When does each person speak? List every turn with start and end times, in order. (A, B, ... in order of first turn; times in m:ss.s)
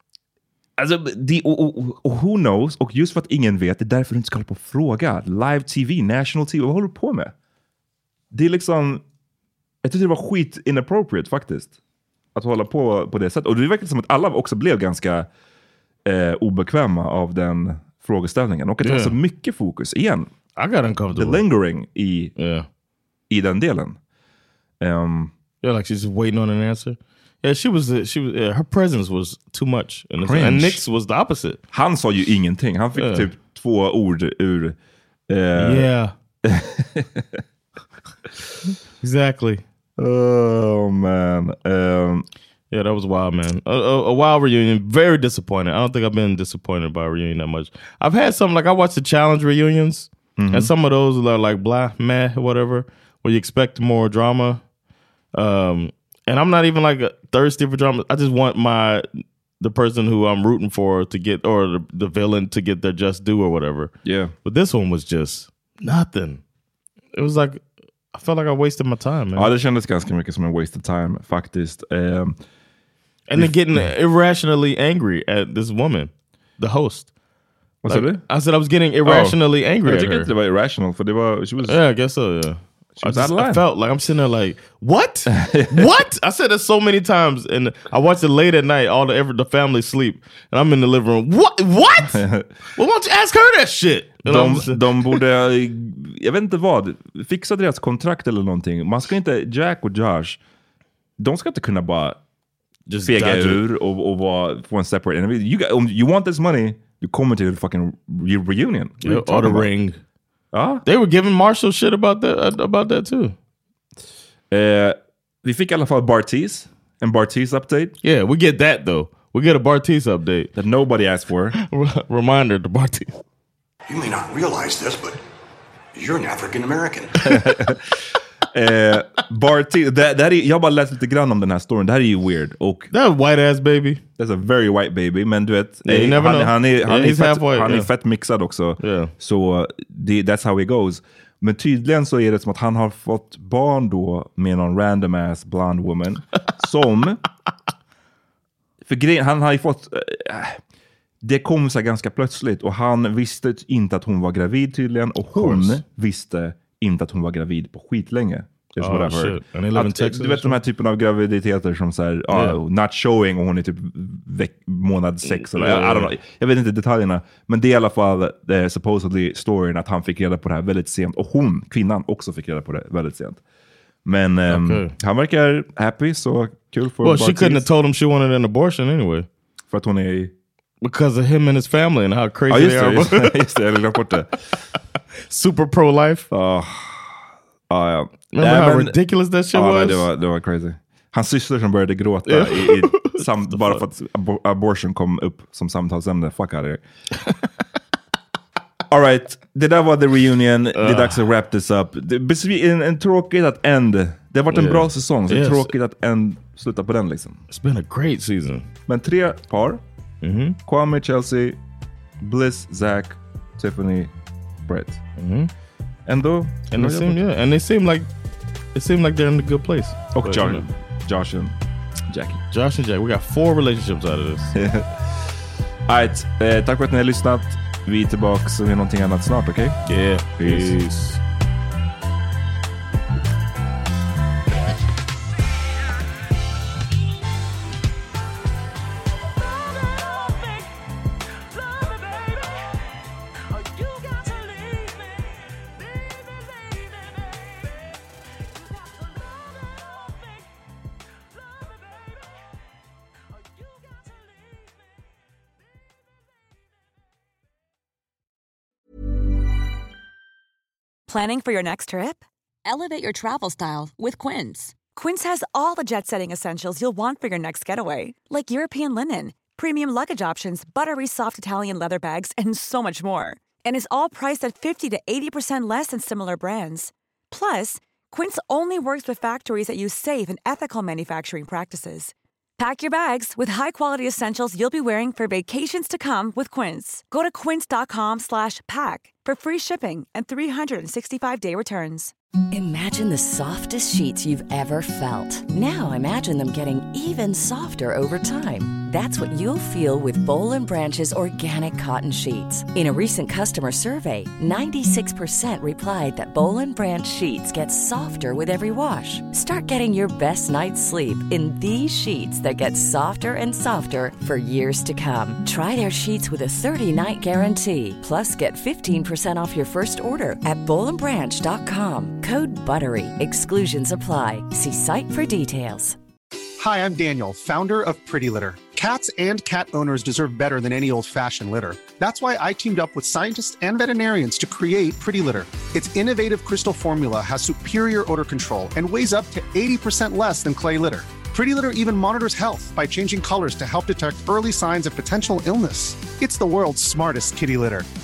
0:00.8-0:07.3 A
0:08.3-0:09.0 A
0:09.8-0:11.7 A
0:12.3-0:15.3 A
0:16.0-0:20.3 A
0:18.8-0:19.1 B
0:20.6-0:21.4 B
0:21.1-0:22.3 A
0:22.4-0:22.6 B
0:23.3-0:24.0 A
0:24.8-0:25.3 A
0:25.6-0:31.6 B
0:30.2-0:30.8 A
0:31.7-0:34.8 A
0:32.9-0:33.3 B
0:35.3-0:35.9 A
0:35.5-0:36.1 B
0:36.4-0:37.4 A
0:39.0-0:39.6 B
0:40.0-0:42.3 A
0:42.7-0:54.6 B
0:50.4-0:50.7 A
0:55.3-1:03.9 B
1:04.0-1:04.3 A
1:04.4-1:06.4 B
1:07.1-1:09.5 B
1:09.4-1:12.4 A
1:13.3-1:17.1 B
1:13.3-1:13.9 A
1:17.8-1:18.2 A
1:17.8-1:20.3 B
1:19.0-1:21.8 A
1:21.6-1:32.2 B
1:23.0-1:23.6 A
1:25.3-1:25.8 A
1:32.1-1:32.4 A
1:32.8-1:35.2 B
1:34.2-1:40.4 A
1:41.2-1:42.2 A
1:42.9-1:43.6 B
1:43.0-1:49.6 A
1:49.0-1:50.0 B
1:50.5-1:50.8 A
1:50.8-1:53.4 B
1:54.5-1:57.9 A
1:58.0-2:00.5 B
2:00.5-2:01.5 A
2:01.6-2:03.1 B
2:03.9-2:05.2 C
2:05.9-2:07.1 C
2:07.2-2:07.8 A
2:08.5-2:12.9 A
2:12.9-2:14.0 B
2:14.2-2:27.2 A
2:15.8-2:17.9 B
2:18.8-2:19.1 B
2:28.8-2:30.6 A
2:31.2-2:53.4 A
2:35.3-2:35.8 B
2:38.8-2:40.6 B
2:42.3-2:42.6 B
2:45.3-2:46.1 B
2:54.0-2:57.6 A
2:54.5-2:54.9 B
2:57.0-2:59.3 B
2:59.7-3:00.3 A
3:00.8-3:03.3 B
3:02.5-3:04.3 A
3:05.3-3:06.3 B
3:06.3-3:09.0 A
3:08.3-3:10.0 B
3:09.5-3:16.8 A
3:12.3-3:13.8 B
3:18.9-3:27.4 A
3:20.7-3:21.2 B
3:24.5-3:25.7 B
3:27.5-3:28.7 B
3:28.9-3:29.8 A
3:30.2-3:30.6 B
3:30.6-3:31.6 A
3:32.2-3:34.1 A
3:34.7-3:35.0 A
3:35.2-3:35.5 B
3:36.0-3:37.2 A
3:36.7-3:38.1 B
3:38.7-3:40.6 B
3:40.1-3:41.5 A
3:42.1-3:42.4 A
3:42.5-3:44.5 B
3:44.5-3:45.0 A
3:45.9-3:50.8 A
3:49.8-3:51.2 B
4:21.1-4:52.1 D
4:52.5-5:26.0 E
5:26.6-5:47.9 F